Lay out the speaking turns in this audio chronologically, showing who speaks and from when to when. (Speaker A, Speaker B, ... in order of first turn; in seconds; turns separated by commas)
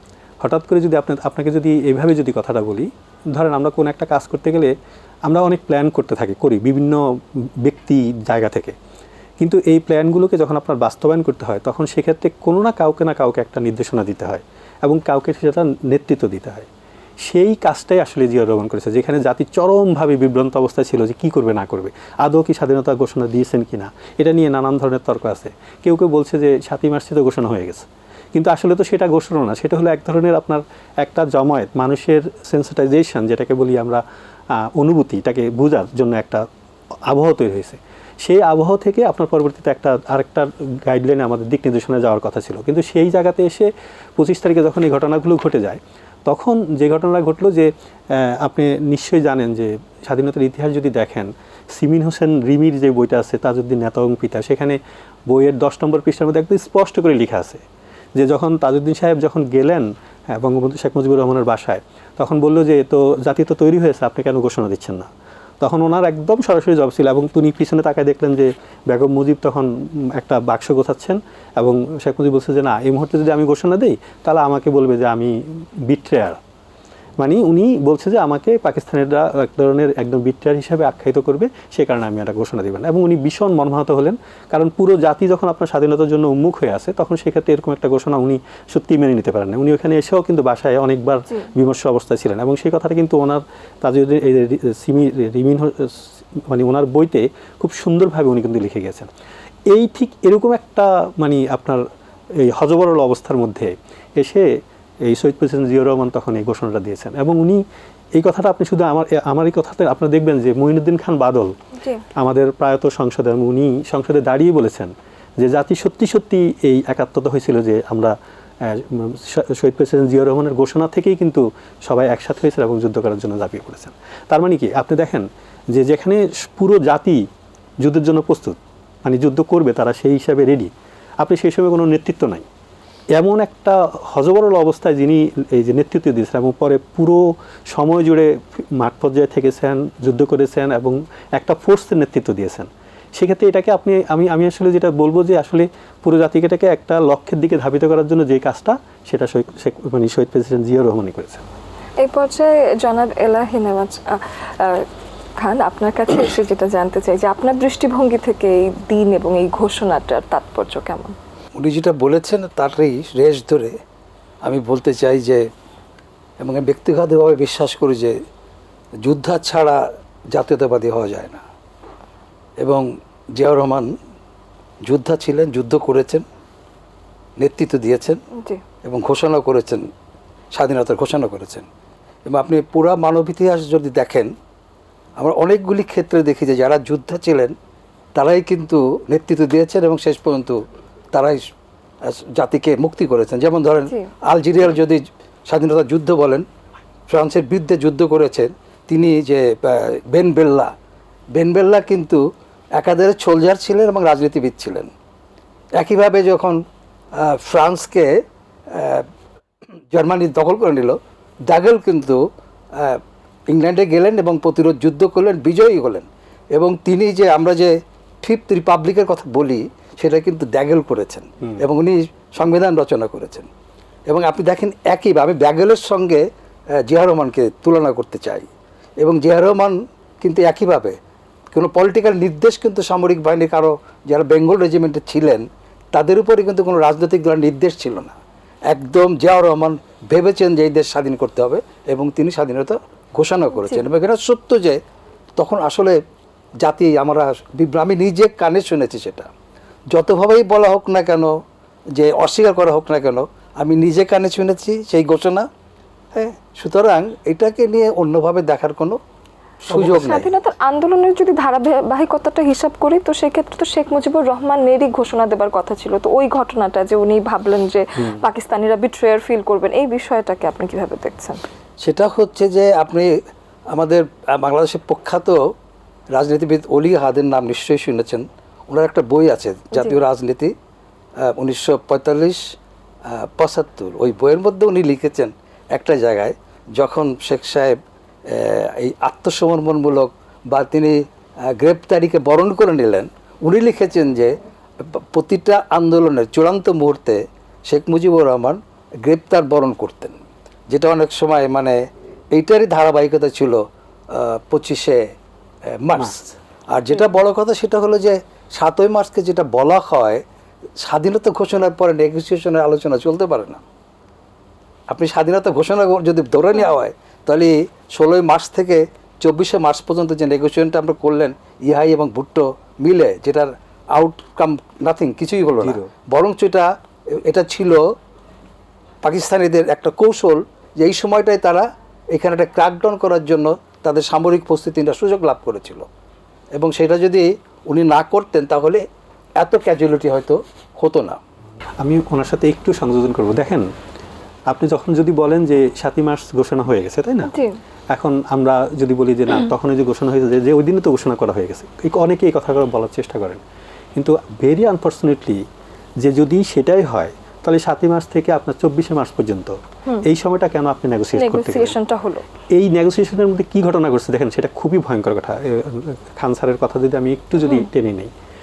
Speaker A: 0.4-4.7, Speaker A: 5.3-7.0, Speaker A: 7.6-8.8, Speaker A: 9.4-16.7, Speaker A: 17.3-34.0, Speaker A: 34.6-36.4, Speaker A: 37.1-57.6, Speaker A: 58.2-65.1, Speaker A: 65.6-75.3, Speaker A: 75.9-76.4, Speaker A: 77.2-99.1, Speaker A: 99.7-101.8, Speaker A: 102.4-104.5, Speaker A: 105.0-107.6, Speaker A: 108.2-111.5, Speaker A: 112.2-127.2, Speaker A: 127.8-130.7, Speaker A: 131.2-132.5, Speaker A: 133.2-151.5, Speaker B: 152.0-154.9, Speaker B: 155.4-161.2, Speaker C: 161.6-163.8, Speaker C: 164.4-165.5, Speaker C: 166.4-168.2, Speaker C: 169.0-171.4, Speaker C: 172.6-173.9, Speaker C: 174.8-176.2, Speaker C: 177.4-178.2, Speaker C: 178.8-179.9, Speaker C: 180.5-181.7, Speaker C: 182.3-184.3, Speaker C: 185.2-187.6, Speaker C: 188.2-190.6, Speaker C: 191.1-191.4, Speaker C: 192.0-196.4, Speaker C: 197.1-200.7, Speaker C: 201.3-202.2, Speaker C: 202.8-204.9, Speaker C: 205.8-206.6, Speaker C: 207.1-208.1, Speaker C: 208.7-209.1, Speaker C: 209.9-212.2, Speaker C: 212.7-223.5, Speaker C: 224.1-226.3, Speaker C: 226.8-228.5, Speaker C: 229.0-231.0, Speaker C: 231.5-238.2, Speaker C: 238.7-244.8, Speaker B: 243.6-243.8, Speaker C: 245.4-246.0, Speaker C: 246.6-249.3, Speaker C: 249.9-251.3, Speaker C: 251.9-255.5, Speaker C: 256.1-259.0, Speaker C: 259.7-260.3, Speaker B: 259.7-271.4, Speaker C: 271.8-273.2, Speaker C: 273.7-275.4, Speaker C: 276.1-280.5, Speaker C: 281.2-282.5, Speaker C: 283.1-301.8, Speaker C: 302.3-305.1, Speaker C: 305.8-310.2, Speaker C: 310.8-313.6, Speaker C: 314.9-326.7, Speaker A: 325.6-325.9, Speaker C: 327.2-327.9, Speaker C: 329.0-335.9, Speaker C: 336.6-338.8, Speaker C: 339.4-341.2, Speaker A: 341.8-343.7, Speaker A: 344.5-347.3, Speaker B: 347.3-347.6, Speaker A: 347.9-353.4, Speaker A: 354.0-355.4, Speaker A: 356.0-361.8, Speaker B: 361.1-362.2, Speaker A: 362.5-368.1